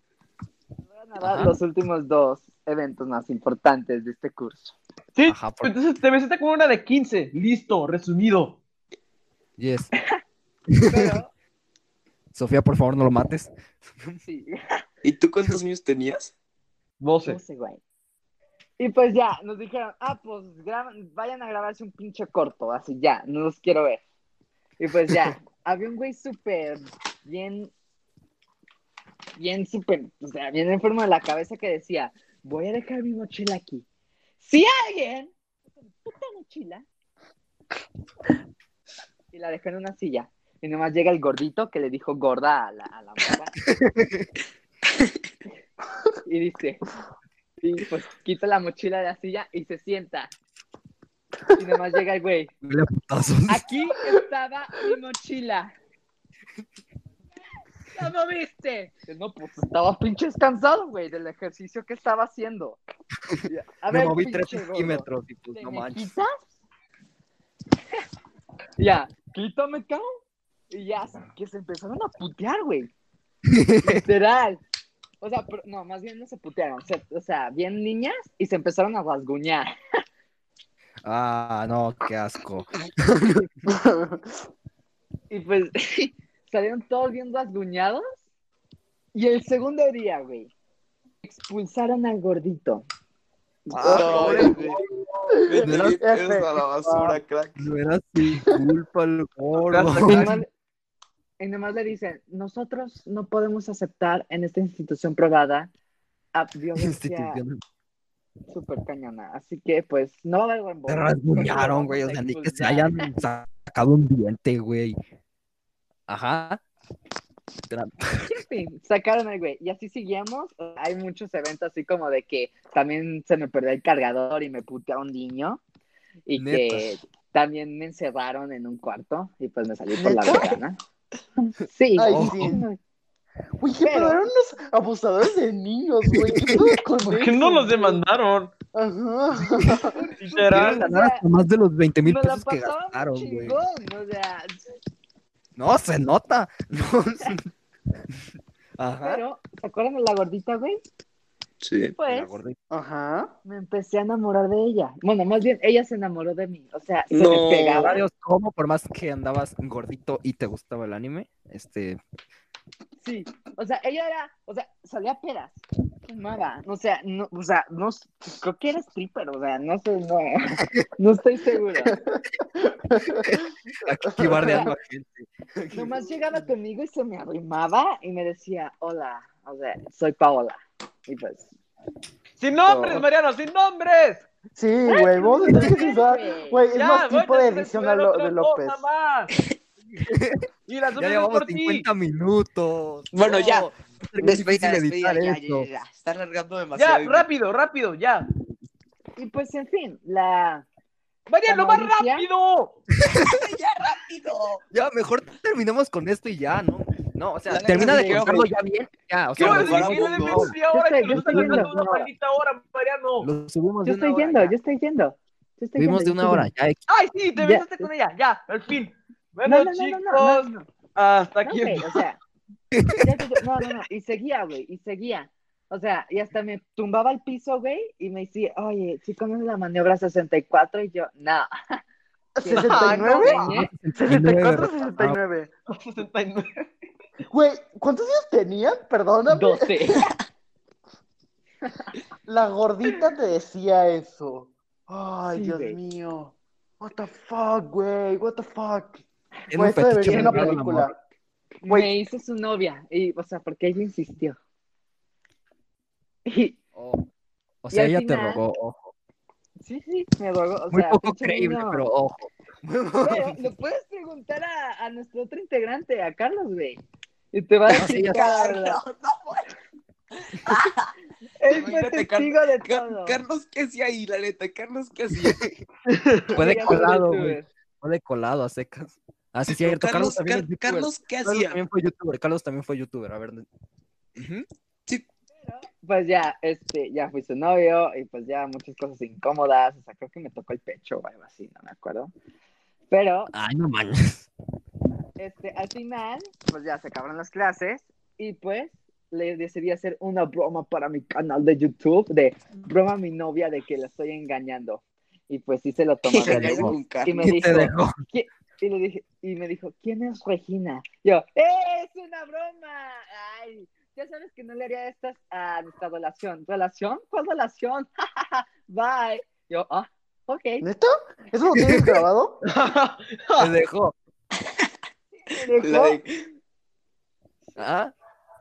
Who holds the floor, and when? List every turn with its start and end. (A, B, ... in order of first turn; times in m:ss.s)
0:00.9-0:04.8 A
0:01.2-0:01.6 B
0:05.2-0:08.6 C
0:05.3-0:05.7 B
0:09.6-0:09.9 B
0:10.7-0:11.2 B
0:10.9-0:11.3 A
0:12.3-0:14.2 B
0:14.2-0:14.8 A
0:15.0-0:16.3 D
0:17.0-0:17.4 C
0:17.2-0:17.8 A
0:18.8-0:24.0 A
0:24.8-0:27.7 A
0:29.4-0:33.9 A
0:34.4-0:36.8 A
0:39.3-0:43.6 A
0:43.6-0:44.3 B
0:46.2-0:46.8 A
0:47.6-0:50.3 A
0:51.5-0:52.5 A
0:52.6-0:53.7 B
0:53.5-0:55.7 A
0:57.9-1:02.8 A
1:03.3-1:06.2 B
1:03.4-1:06.5 A
1:08.8-1:10.1 A
1:10.7-1:12.9 A
1:13.5-1:14.0 B
1:13.8-1:14.6 A
1:15.2-1:19.7 A
1:21.0-1:23.5 B
1:23.7-1:24.2 E
1:25.3-1:28.1 A
1:29.1-1:30.5 A
1:31.2-1:32.9 A
1:33.7-1:34.8 E
1:33.7-1:34.9 D
1:33.9-1:34.7 A
1:34.0-1:34.7 C
1:35.4-1:37.6 D
1:35.5-1:37.2 E
1:35.6-1:36.0 B
1:37.6-1:40.4 B
1:39.6-1:40.4 C
1:40.0-1:40.5 A
1:41.4-1:45.7 A
1:46.3-1:47.4 A
1:46.8-1:47.6 B
1:48.5-1:53.2 A
1:50.9-1:55.0 B
1:56.1-1:56.6 B
1:57.7-1:58.3 B
1:58.2-2:05.6 A
2:06.3-2:10.8 A
2:06.4-2:07.0 B
2:10.0-2:10.6 E
2:11.4-2:12.8 A
2:12.0-2:12.6 E
2:12.1-2:12.6 B
2:13.6-2:18.0 E
2:13.8-2:14.2 A
2:16.2-2:16.7 B
2:17.1-2:18.5 C
2:18.7-2:20.0 E
2:19.5-2:19.9 B
2:19.9-2:21.2 A
2:20.2-2:20.8 C
2:20.4-2:23.6 B
2:22.0-2:24.6 A
2:25.6-2:27.5 B
2:28.8-2:29.2 B
2:29.0-2:30.8 A
2:31.6-2:32.0 D
2:32.0-2:32.3 A
2:32.0-2:32.6 B
2:32.7-2:33.3 E
2:33.4-2:38.0 A
2:37.1-2:38.0 D
2:37.5-2:42.0 B
2:43.0-2:52.0 A
2:52.9-2:53.4 E
2:53.1-2:56.0 B
2:54.1-2:54.6 E
2:54.4-2:54.7 A
2:55.7-3:01.5 A
3:02.4-3:04.2 C
3:02.6-3:03.0 E
3:04.5-3:08.8 E
3:04.9-3:06.6 A
3:06.7-3:09.3 C
3:10.0-3:10.4 B
3:10.7-3:11.9 C
3:11.0-3:15.7 B
3:13.1-3:17.3 D
3:16.8-3:18.3 C
3:19.2-3:20.6 A
3:21.3-3:22.8 C
3:21.5-3:22.3 A
3:22.9-3:23.5 B
3:23.2-3:24.7 D
3:24.7-3:32.0 B
3:27.5-3:28.5 D
3:27.7-3:28.3 A
3:29.4-3:30.5 D
3:29.4-3:33.3 C
3:30.7-3:32.0 A
3:33.2-3:34.5 B
3:33.8-3:36.5 A
3:35.8-3:36.8 B
3:36.9-3:42.0 C
3:37.4-3:37.9 A
3:39.4-3:40.7 A
3:41.4-3:42.2 A
3:42.7-3:43.4 B
3:43.0-3:51.8 A
3:52.4-3:53.4 E
3:52.4-3:53.7 A
3:52.7-3:53.5 C
3:53.2-3:55.2 B
3:53.9-3:55.5 E
3:55.7-3:56.6 C
3:57.3-4:00.0 E
3:59.3-4:00.0 A
4:02.2-4:10.9 E
4:05.3-4:05.8 A
4:09.5-4:10.9 B
4:10.0-4:10.6 A
4:11.6-4:14.4 A
4:16.2-4:16.6 A
4:16.7-4:17.0 B
4:17.6-4:18.9 B
4:17.7-4:18.4 A
4:19.6-4:21.9 A
4:20.7-4:23.4 B
4:23.0-4:26.8 A
4:27.3-4:28.8 A
4:27.7-4:28.2 B
4:27.8-4:29.5 D
4:30.2-4:30.9 D
4:31.4-4:33.2 A
4:31.5-4:35.4 D
4:35.1-4:35.6 B
4:35.9-4:36.3 C
4:36.3-4:37.5 A
4:36.3-4:43.4 B
4:39.5-4:41.6 D
4:44.2-4:44.4 B
4:45.3-4:52.1 A
4:52.9-4:53.3 A
4:53.3-4:54.3 B
4:55.2-5:20.6 A
5:06.1-5:07.3 D
5:06.2-5:08.0 B
5:20.6-5:22.4 E
5:22.4-5:23.5 C
5:23.4-5:23.9 B
5:25.1-5:26.0 A
5:25.6-5:26.1 D
5:27.6-5:27.9 B